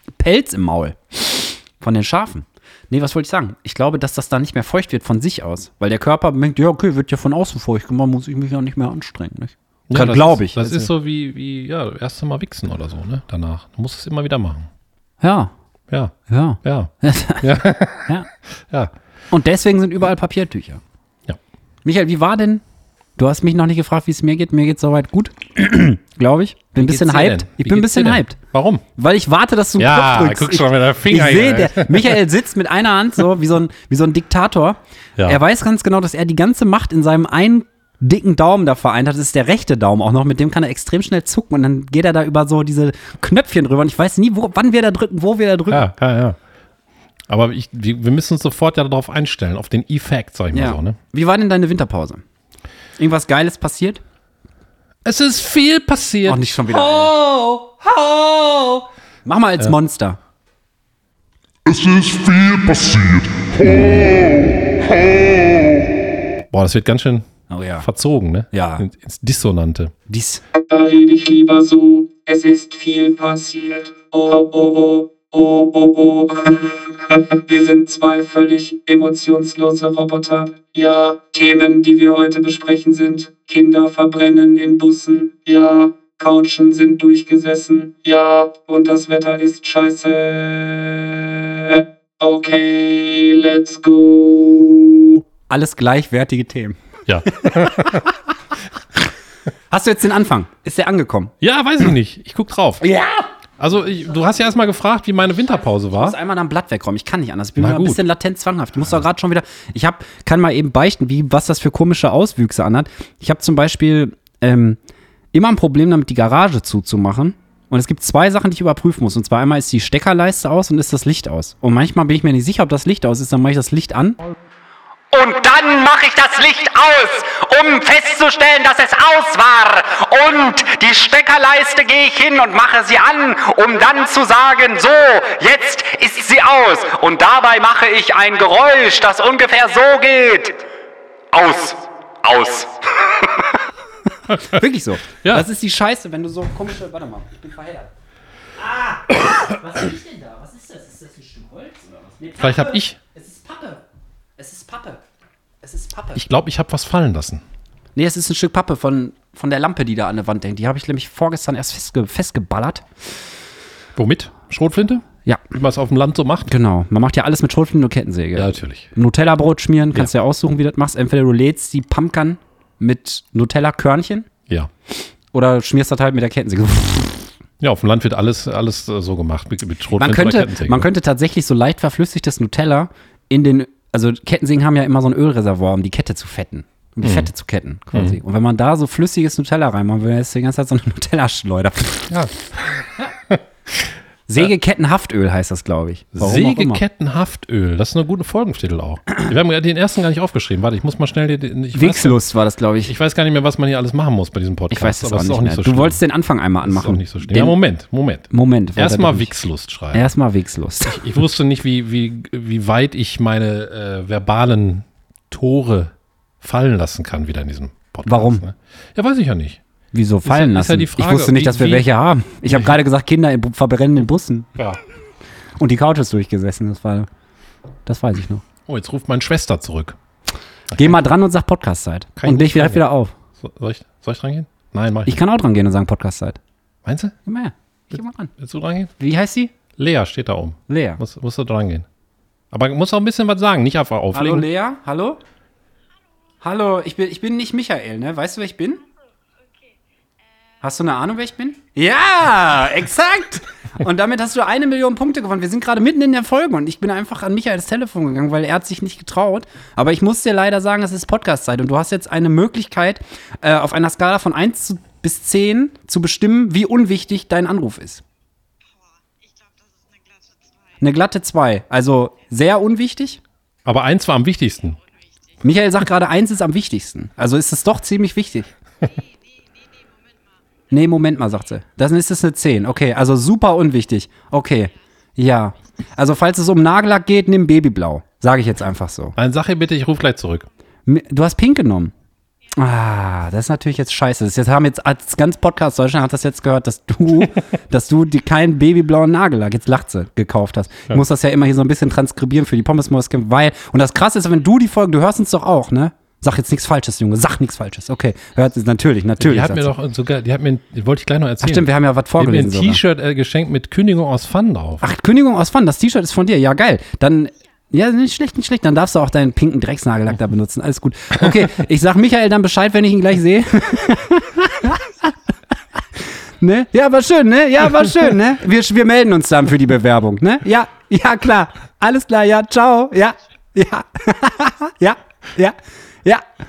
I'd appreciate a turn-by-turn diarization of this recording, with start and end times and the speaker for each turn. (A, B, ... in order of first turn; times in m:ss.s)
0:00.2-0:10.9 A
0:09.9-0:14.7 B
0:15.2-0:15.5 A
0:15.9-0:18.1 B
0:16.3-0:17.4 A
0:19.3-0:20.8 A
0:21.8-0:22.6 A
0:23.2-0:28.4 A
0:26.8-0:28.8 B
0:29.0-0:45.9 A
0:29.8-0:32.2 B
0:45.7-0:46.4 B
0:47.3-0:51.0 B
0:50.5-0:52.2 A
0:53.0-0:54.0 A
0:55.0-0:58.8 B
0:56.3-0:57.2 A
0:59.2-1:00.2 A
1:01.6-1:05.9 C
1:06.5-1:07.3 B
1:07.5-1:07.9 A
1:07.8-1:09.9 B
1:08.5-1:08.8 A
1:10.1-1:10.4 A
1:10.6-1:35.2 D
1:35.5-1:36.8 A
1:37.1-1:38.1 B
1:37.3-1:38.0 A
1:39.7-1:41.3 A
1:41.4-1:42.9 B
1:42.8-1:43.2 A
1:43.6-1:46.2 B
1:45.9-1:54.8 A
1:47.6-1:48.0 B
1:55.3-2:04.2 A
2:05.1-2:20.6 E
2:21.3-2:21.8 E
2:22.3-2:22.6 E
2:24.3-2:24.6 B
2:24.4-2:27.9 A
2:28.6-2:33.8 A
2:32.4-2:33.0 B
2:34.4-2:35.0 A
2:35.6-2:36.2 A
2:36.2-2:37.4 B
2:38.0-2:42.8 A
2:44.0-2:46.5 B
2:46.5-2:54.3 A
2:48.4-2:48.9 B
2:55.3-2:57.3 A
2:57.6-3:00.9 B
2:59.9-3:12.2 A
3:07.0-3:07.3 B
3:12.1-3:13.4 B
3:14.3-3:16.8 A
3:16.1-3:22.2 B
3:21.7-3:22.9 A
3:22.8-3:26.0 B
3:24.7-3:27.6 A
3:26.6-3:30.1 B
3:28.3-3:29.3 A
3:29.9-3:31.0 A
3:30.8-3:39.6 B
3:38.0-3:38.4 A
3:39.9-3:44.5 A
3:40.2-3:41.9 B
3:45.6-3:47.1 A
3:47.8-3:48.4 A
3:48.6-3:50.0 B
3:50.8-3:53.1 A
3:52.2-3:52.8 B
3:53.4-3:55.2 B
3:55.0-3:56.4 A
3:56.8-3:57.1 B
3:57.2-3:58.3 A
3:58.4-3:58.9 B
3:59.0-3:59.5 A
3:59.8-4:01.8 B
4:00.7-4:01.0 A
4:02.5-4:04.5 B
4:04.1-4:05.2 A
4:06.4-4:08.8 A
4:10.6-4:28.0 A
4:30.8-4:33.2 A
4:33.6-4:34.8 B
4:35.4-4:38.5 A
4:40.7-4:49.1 A
4:49.2-4:50.4 B
4:50.8-4:51.9 A
4:52.6-5:09.7 A
5:09.2-5:14.8 B
5:11.4-5:12.8 A
5:14.8-5:25.1 A
5:26.4-5:36.2 A